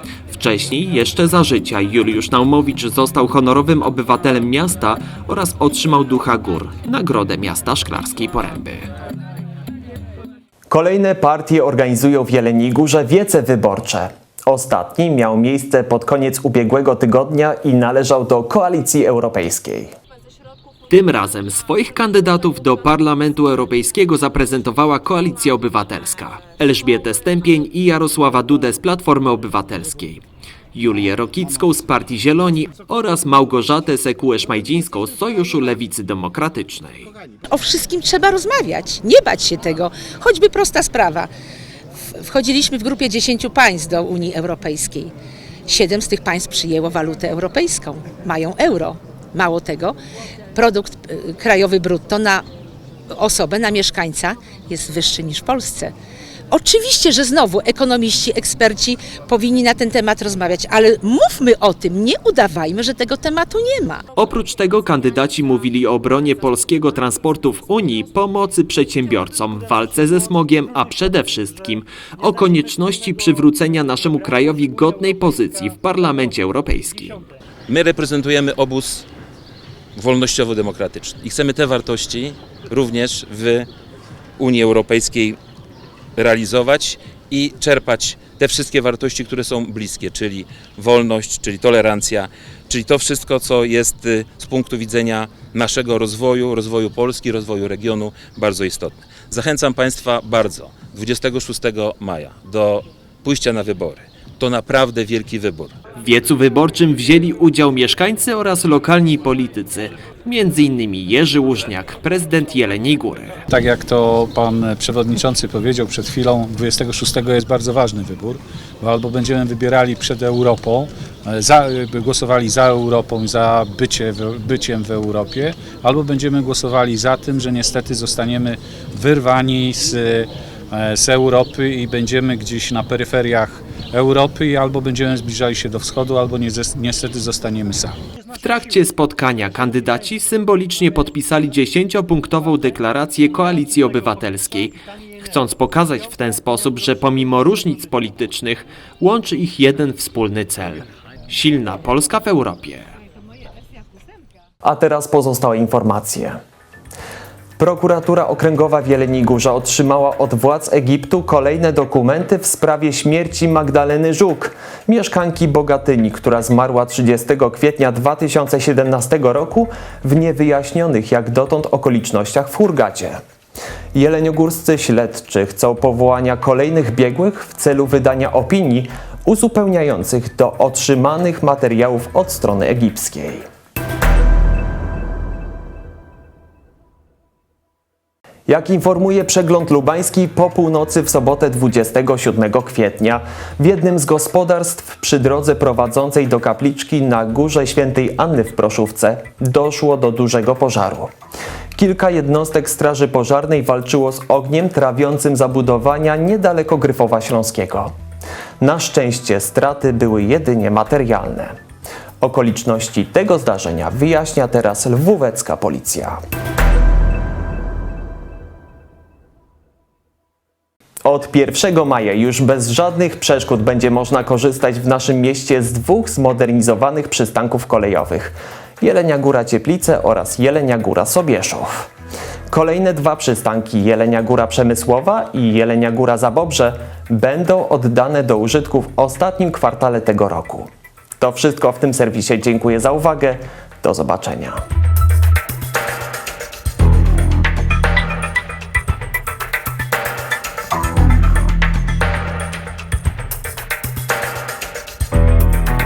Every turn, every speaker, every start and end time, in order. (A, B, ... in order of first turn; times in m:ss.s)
0:00.3-0:08.9 A
0:10.7-0:19.9 B
0:20.9-0:30.2 A
0:30.7-0:37.1 A
0:37.5-0:41.3 C
0:42.0-0:45.1 C
0:45.7-0:50.0 C
0:50.5-0:52.5 C
0:53.1-0:55.9 C
0:56.5-1:04.0 C
1:04.2-1:17.2 A
1:17.7-1:19.1 D
1:20.0-1:23.7 D
1:24.4-1:25.4 D
1:26.2-1:45.8 D
1:46.0-1:53.4 A
1:53.5-2:18.0 E
2:18.4-2:32.9 A
2:34.6-2:36.4 B
2:37.6-2:53.2 B
2:53.9-3:03.4 B
3:08.5-3:21.1 B
3:21.8-3:27.9 B
3:28.6-3:31.6 B
3:32.2-3:36.2 B
3:41.0-3:51.9 B
3:52.5-4:04.6 B